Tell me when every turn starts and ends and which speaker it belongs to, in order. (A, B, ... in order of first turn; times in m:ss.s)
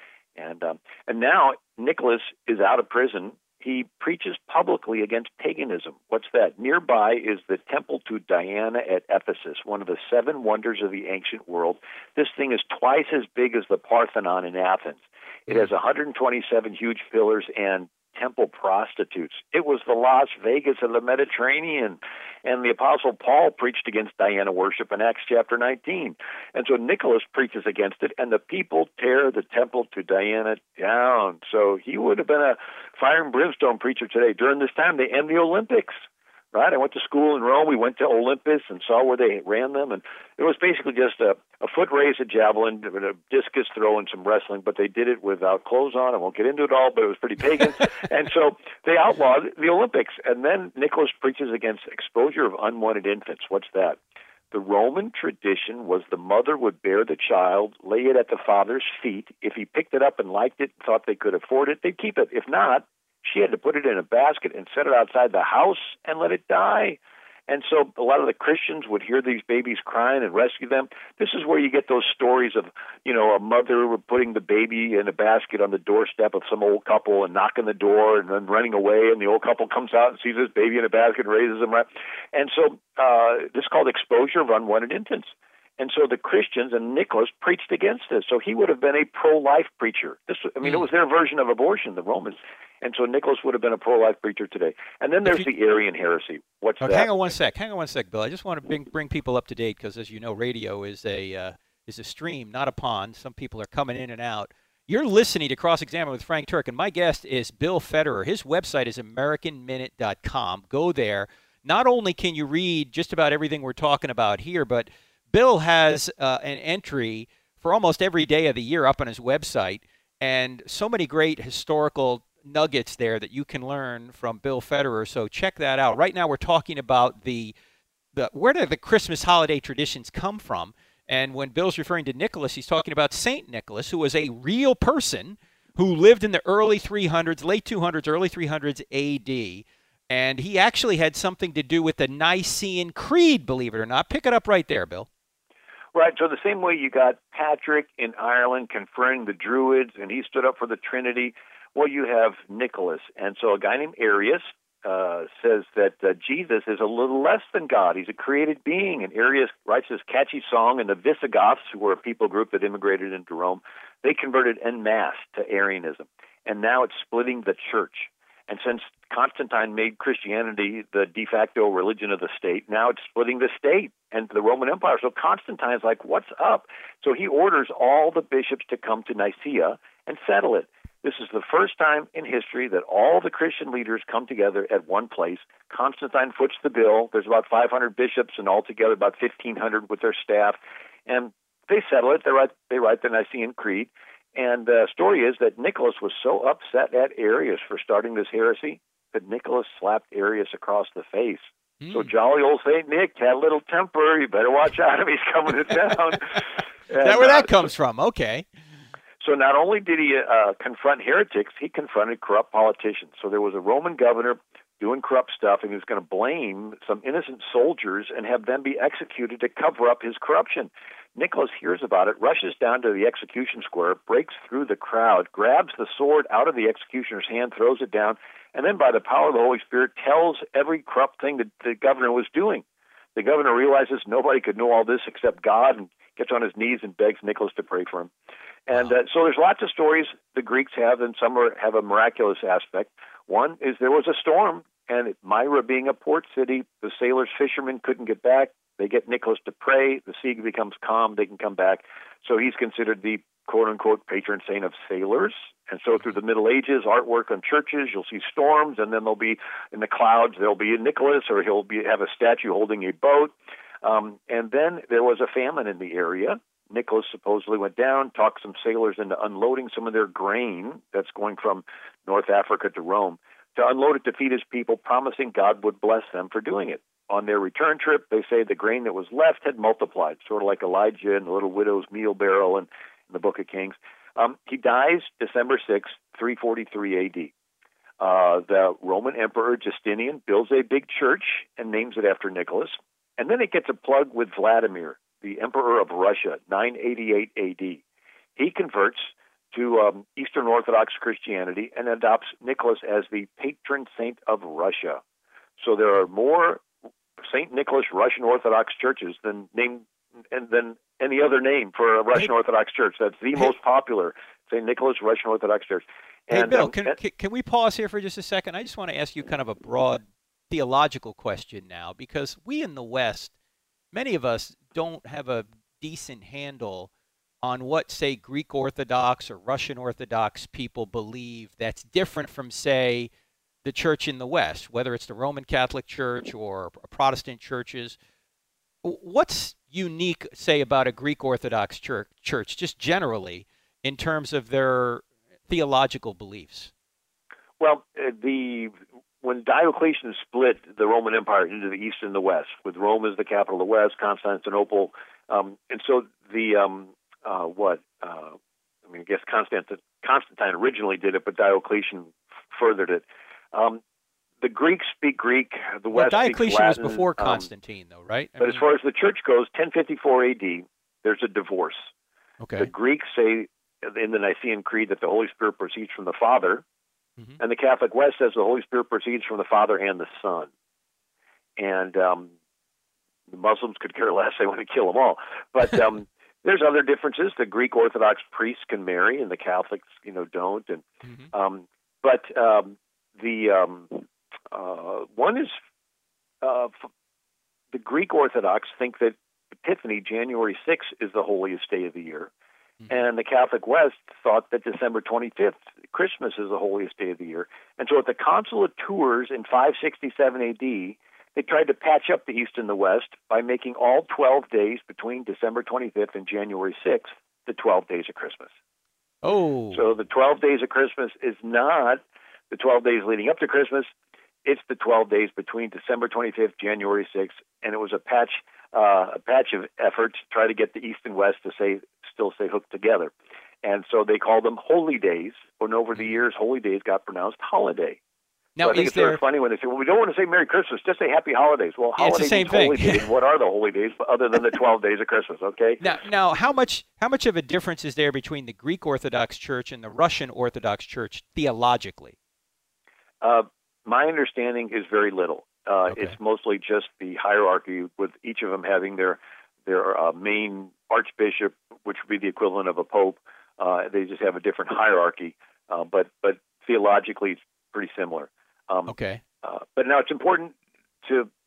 0:00.4-0:35.9 A
0:36.5-0:54.0 A
0:54.5-1:37.1 A
1:36.8-2:07.5 B
2:08.1-2:25.1 B
2:25.9-3:27.7 A
3:21.8-3:22.1 B
3:27.0-3:28.4 B
3:29.2-3:52.6 A
3:53.1-3:58.1 A
3:58.7-4:47.3 A
4:48.0-4:57.8 A
4:58.4-5:05.0 A
5:05.6-5:06.6 A
5:07.3-5:17.0 A
5:16.3-5:23.3 B
5:23.9-5:26.9 B
5:27.4-5:33.1 B
5:33.6-5:38.0 B
5:38.8-5:46.7 B
5:47.6-5:58.4 A
5:58.9-6:03.8 A
6:04.4-6:07.5 A
6:05.9-6:08.6 B
6:08.4-6:11.9 A
6:12.4-6:12.7 B
6:12.6-6:16.6 A
6:17.4-6:20.5 A
6:21.6-6:22.3 A
6:23.3-6:35.5 A
6:31.0-6:31.3 B
6:36.4-6:36.8 A
6:37.7-6:42.3 A
6:42.9-6:58.5 A
6:59.2-6:59.8 B
6:59.7-7:03.9 A
7:04.4-7:13.1 A
7:13.6-7:18.0 A
7:18.6-7:19.2 B
7:18.6-7:25.8 A
7:22.0-7:23.1 B
7:25.8-7:32.2 B
7:33.2-7:51.3 A
7:35.9-7:36.1 B
7:48.9-7:49.2 B